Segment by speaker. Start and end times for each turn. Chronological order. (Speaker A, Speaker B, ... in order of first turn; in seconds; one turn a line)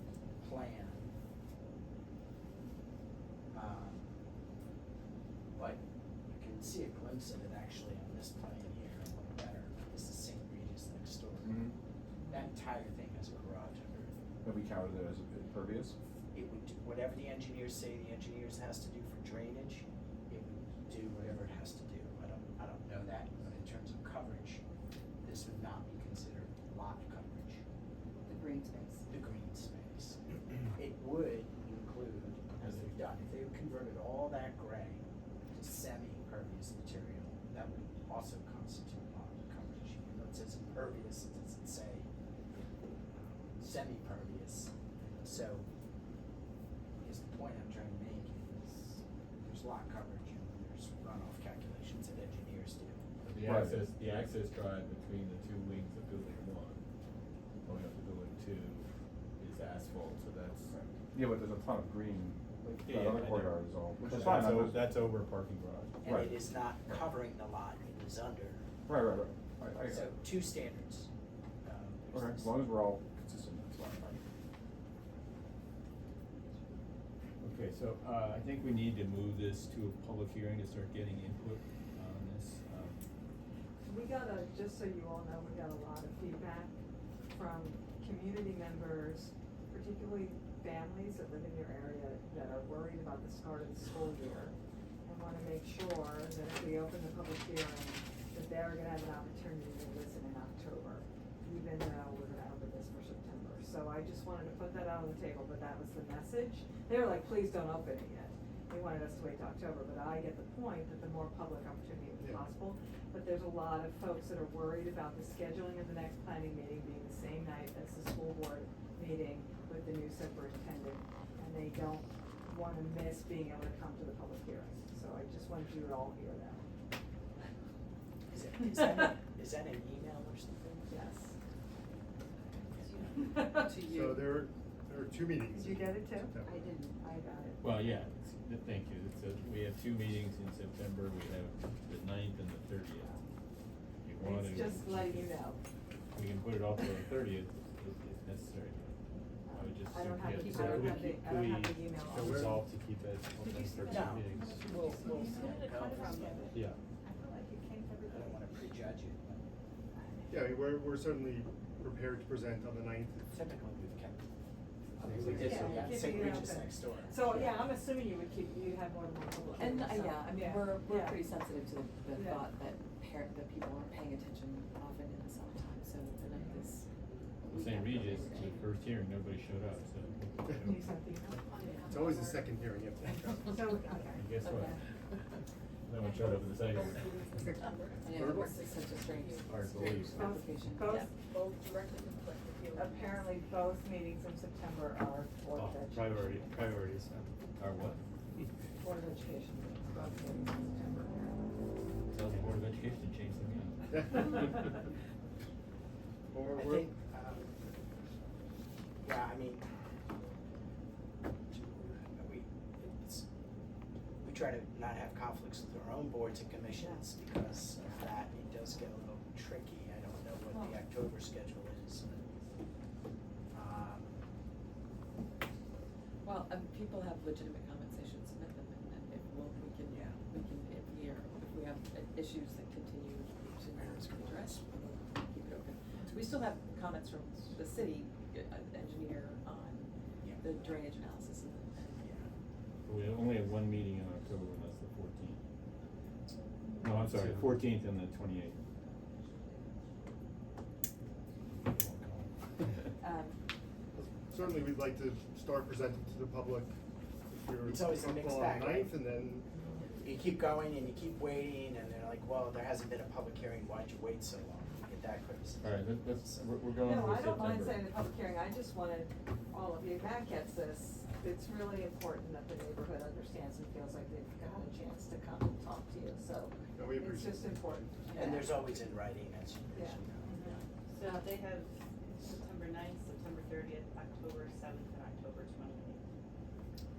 Speaker A: 0.4-1.1
Speaker A: 3.5-4.1
Speaker A: 5.5-11.7
Speaker B: 11.4-11.7
Speaker A: 12.3-14.1
Speaker B: 14.4-15.9
Speaker A: 16.3-24.6
Speaker A: 25.2-27.6
Speaker C: 28.3-29.0
Speaker A: 29.1-42.1
Speaker A: 43.1-45.6
Speaker A: 47.0-53.0
Speaker D: 53.2-56.8
Speaker B: 53.4-53.8
Speaker D: 57.6-58.9
Speaker D: 59.4-60.7
Speaker B: 60.7-64.8
Speaker D: 62.8-66.1
Speaker A: 66.0-68.7
Speaker B: 66.0-66.3
Speaker B: 68.9-70.0
Speaker A: 69.8-71.1
Speaker A: 71.6-72.6
Speaker B: 72.1-74.2
Speaker D: 77.4-83.0
Speaker E: 83.8-86.8
Speaker E: 87.3-126.7
Speaker F: 112.2-112.5
Speaker A: 128.3-130.9
Speaker E: 130.9-131.3
Speaker C: 132.8-134.3
Speaker E: 133.2-133.8
Speaker F: 133.8-136.7
Speaker E: 135.5-136.3
Speaker C: 136.5-137.0
Speaker E: 137.0-137.8
Speaker D: 137.6-143.1
Speaker D: 144.0-145.3
Speaker E: 144.2-145.6
Speaker D: 146.1-148.9
Speaker E: 149.4-152.3
Speaker D: 149.5-154.6
Speaker C: 150.3-151.1
Speaker F: 152.1-152.7
Speaker E: 153.4-158.9
Speaker A: 153.8-156.6
Speaker G: 155.3-155.8
Speaker D: 156.5-156.8
Speaker A: 158.1-159.4
Speaker E: 159.9-160.6
Speaker F: 160.3-163.3
Speaker A: 163.3-164.2
Speaker E: 165.0-171.2
Speaker A: 165.0-167.7
Speaker D: 165.0-165.9
Speaker C: 165.7-166.0
Speaker C: 169.5-176.8
Speaker E: 172.1-172.4
Speaker C: 177.4-178.5
Speaker D: 177.5-180.9
Speaker E: 180.6-181.4
Speaker G: 181.5-182.4
Speaker C: 181.6-182.0
Speaker F: 181.9-183.6
Speaker E: 183.5-184.3
Speaker D: 184.1-184.8
Speaker C: 184.4-184.8
Speaker D: 185.9-187.1
Speaker G: 186.2-189.5
Speaker C: 186.7-191.1
Speaker F: 188.1-188.6
Speaker D: 189.4-190.3
Speaker E: 190.1-191.1
Speaker G: 191.2-193.2
Speaker E: 192.7-196.8
Speaker D: 195.5-198.0
Speaker E: 198.8-201.7
Speaker D: 202.1-204.5
Speaker F: 203.9-204.3
Speaker F: 206.3-206.9
Speaker A: 206.5-207.5
Speaker A: 209.0-209.7
Speaker A: 211.5-213.3
Speaker A: 214.2-222.2
Speaker C: 220.5-220.8
Speaker A: 223.5-224.2
Speaker C: 226.2-239.9
Speaker A: 229.9-230.2
Speaker A: 233.8-234.6
Speaker C: 240.4-242.1
Speaker A: 242.0-242.3
Speaker D: 242.8-245.4
Speaker D: 246.8-248.6
Speaker C: 253.0-253.3
Speaker F: 254.2-259.5
Speaker A: 257.6-258.9
Speaker A: 260.0-266.4
Speaker D: 265.6-267.9
Speaker E: 266.8-278.6
Speaker F: 276.7-278.1
Speaker A: 278.1-280.6
Speaker E: 279.7-280.6
Speaker G: 280.9-286.0